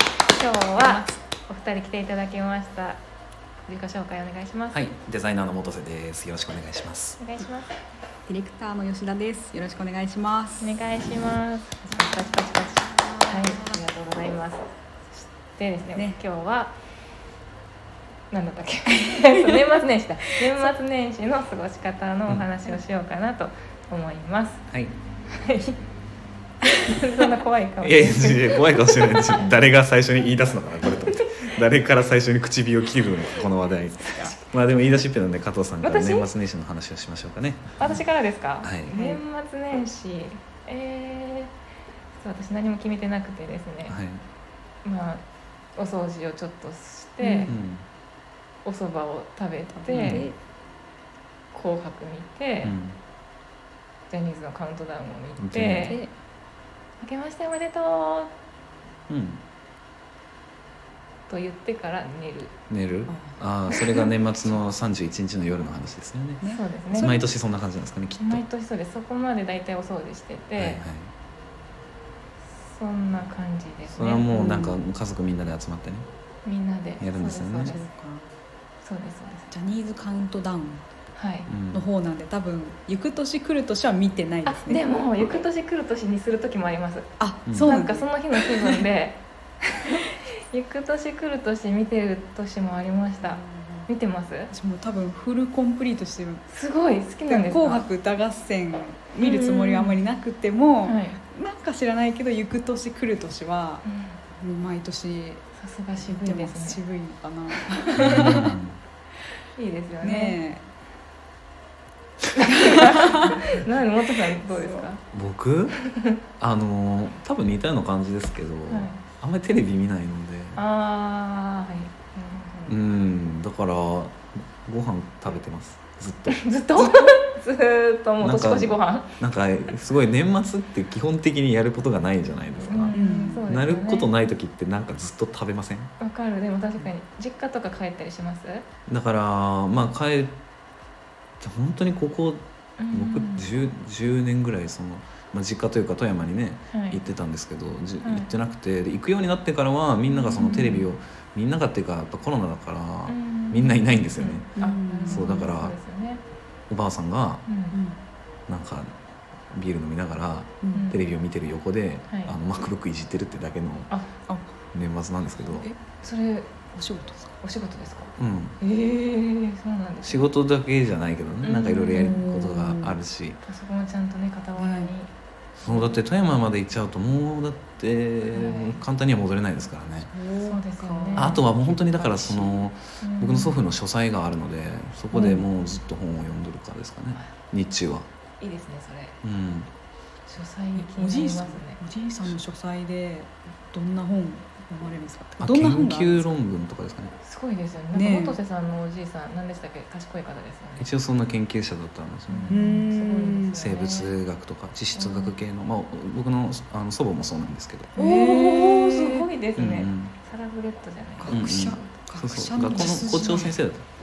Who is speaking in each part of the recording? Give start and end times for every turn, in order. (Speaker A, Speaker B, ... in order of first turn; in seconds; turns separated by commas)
Speaker A: 0.3-3.0, Speaker B: 0.8-1.2, Speaker A: 3.6-4.9, Speaker C: 4.7-7.2, Speaker A: 7.2-7.7, Speaker B: 8.3-10.8, Speaker A: 10.6-16.8, Speaker B: 11.9-13.8, Speaker B: 15.9-16.2, Speaker A: 18.3-24.7, Speaker B: 18.9-19.5, Speaker C: 24.7-24.9, Speaker A: 25.3-25.8, Speaker A: 26.8-29.5, Speaker C: 27.8-38.0, Speaker A: 31.1-31.4, Speaker A: 35.8-36.3, Speaker A: 37.8-41.5, Speaker C: 38.6-39.0, Speaker B: 38.9-39.2, Speaker A: 42.2-44.0, Speaker C: 43.9-44.2, Speaker A: 44.8-45.2, Speaker A: 45.8-47.5, Speaker B: 47.2-47.5, Speaker C: 47.5-47.8, Speaker A: 48.6-50.3, Speaker B: 49.7-50.4, Speaker C: 49.9-50.3, Speaker A: 51.5-52.8, Speaker C: 52.6-53.0, Speaker A: 54.1-56.0, Speaker C: 55.4-56.0, Speaker B: 55.8-56.1, Speaker A: 57.0-58.3, Speaker C: 59.1-59.4, Speaker A: 61.3-62.5, Speaker C: 62.7-66.4, Speaker B: 63.1-64.6, Speaker B: 66.4-67.2, Speaker A: 66.4-67.2, Speaker C: 66.9-68.4, Speaker A: 68.2-70.8, Speaker C: 70.6-71.1, Speaker A: 72.6-74.3, Speaker C: 73.9-76.1, Speaker B: 74.3-74.8, Speaker A: 76.4-77.9, Speaker C: 77.0-77.7, Speaker B: 77.3-78.3, Speaker A: 78.8-79.5, Speaker B: 79.5-80.9, Speaker A: 81.2-81.5, Speaker C: 81.5-81.9, Speaker B: 81.7-84.9, Speaker A: 84.5-87.1, Speaker B: 87.2-88.8, Speaker C: 87.5-87.8, Speaker A: 87.6-94.5, Speaker B: 93.2-93.9, Speaker B: 94.5-96.5, Speaker A: 96.5-97.8, Speaker B: 97.2-105.4, Speaker A: 99.2-100.0, Speaker A: 100.8-101.2, Speaker A: 103.8-104.2, Speaker A: 105.6-106.8, Speaker B: 106.0-108.6, Speaker A: 108.0-108.4, Speaker C: 108.0-108.8, Speaker A: 109.5-110.4, Speaker B: 110.0-110.6, Speaker A: 112.3-115.0, Speaker B: 112.8-113.3, Speaker B: 114.5-114.9, Speaker C: 115.1-115.8, Speaker A: 115.7-116.2, Speaker C: 116.4-120.6, Speaker A: 118.7-119.0, Speaker A: 120.6-122.8, Speaker C: 122.7-126.9, Speaker A: 126.3-129.2, Speaker C: 128.2-135.9, Speaker A: 132.6-134.1, Speaker B: 132.9-133.4, Speaker A: 136.0-138.7, Speaker C: 138.9-140.4, Speaker C: 141.4-155.8, Speaker A: 142.8-143.5, Speaker A: 146.7-147.0, Speaker A: 148.0-148.3, Speaker A: 150.1-150.9, Speaker A: 153.1-156.2, Speaker B: 154.6-155.5, Speaker C: 156.7-157.5, Speaker A: 157.5-157.8, Speaker B: 157.7-158.0, Speaker C: 158.5-158.9, Speaker C: 159.5-163.9, Speaker B: 160.6-160.9, Speaker A: 160.7-161.0, Speaker A: 162.1-162.3, Speaker B: 164.3-164.6, Speaker C: 164.7-165.7, Speaker B: 165.5-165.8, Speaker A: 166.0-166.6, Speaker B: 166.7-167.4, Speaker A: 167.4-170.3, Speaker C: 168.2-168.6, Speaker C: 170.0-173.4, Speaker A: 171.4-172.3, Speaker B: 171.9-173.0, Speaker A: 173.4-176.0, Speaker B: 174.6-174.9, Speaker C: 175.6-180.1, Speaker A: 178.2-178.8, Speaker B: 180.1-182.6, Speaker A: 180.4-182.2, Speaker C: 181.2-188.1, Speaker A: 183.0-183.6, Speaker B: 185.1-185.5, Speaker A: 188.4-189.2, Speaker C: 189.2-189.7, Speaker A: 190.3-191.8, Speaker B: 190.8-196.4, Speaker C: 195.4-197.1, Speaker A: 197.2-200.9, Speaker B: 197.9-198.4, Speaker C: 200.8-202.6, Speaker A: 202.3-204.2, Speaker B: 202.5-203.7, Speaker C: 203.6-207.9, Speaker A: 204.9-205.4, Speaker B: 207.9-209.3, Speaker A: 208.0-211.9, Speaker C: 209.6-210.1, Speaker B: 211.2-213.6, Speaker C: 211.3-213.8